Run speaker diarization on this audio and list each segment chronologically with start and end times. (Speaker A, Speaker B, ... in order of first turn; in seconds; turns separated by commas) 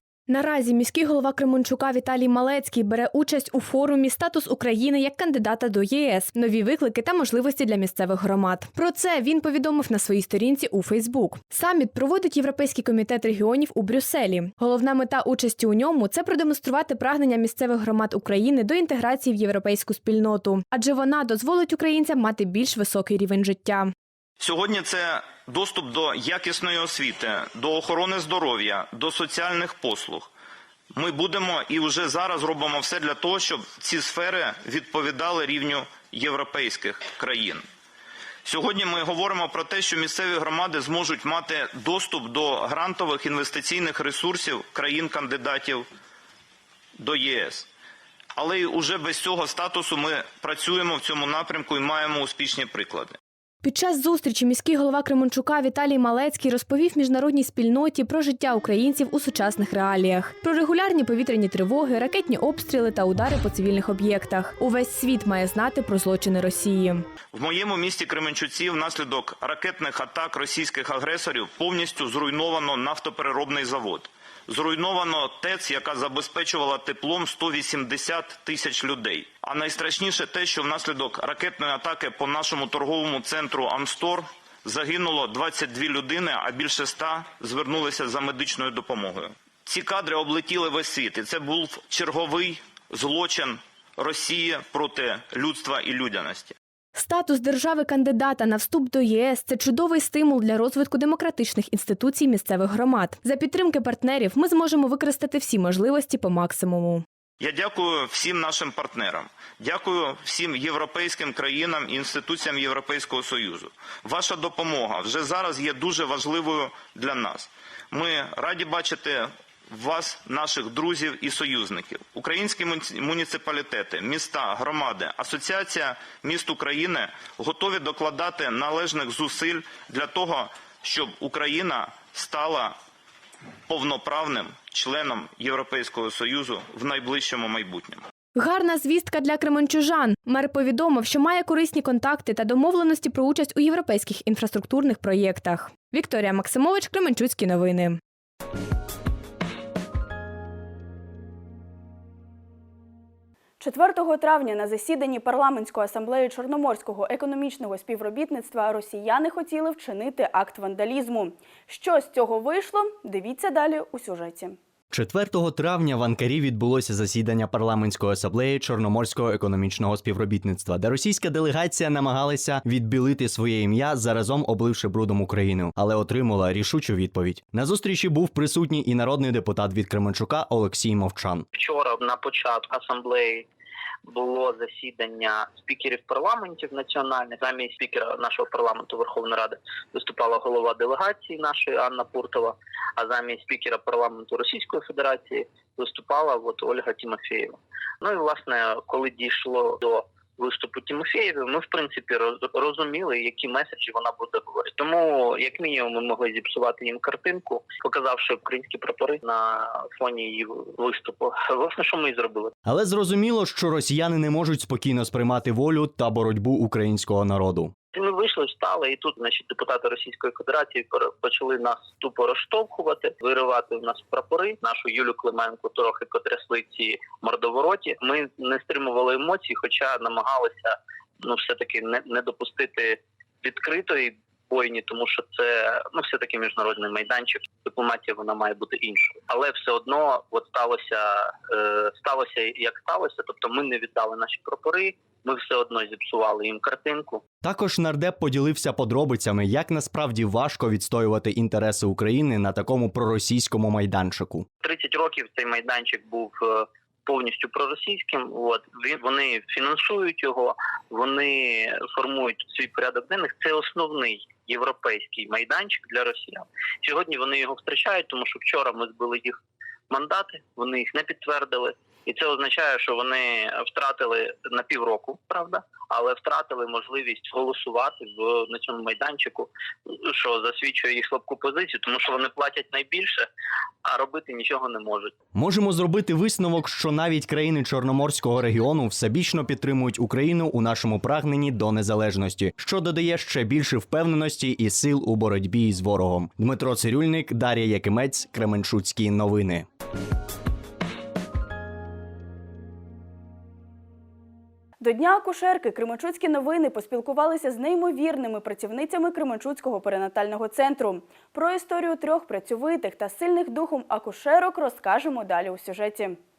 Speaker A: 0.3-23.9, Speaker B: 24.4-30.3, Speaker B: 30.9-37.6, Speaker B: 38.4-45.9, Speaker B: 47.0-47.7, Speaker B: 48.4-53.2, Speaker A: 53.6-67.0, Speaker B: 67.3-96.5, Speaker A: 96.9-107.0, Speaker B: 107.4-132.8, Speaker B: 133.7-138.1, Speaker A: 138.3-148.0, Speaker C: 153.6-164.6, Speaker D: 164.9-181.4, Speaker E: 181.5-183.5, Speaker E: 184.1-212.5, Speaker D: 212.7-217.7, Speaker E: 217.9-247.2, Speaker D: 247.4-254.5, Speaker E: 254.6-269.4, Speaker E: 269.9-283.3, Speaker E: 283.8-285.1, Speaker D: 285.3-299.6, Speaker C: 304.8-316.2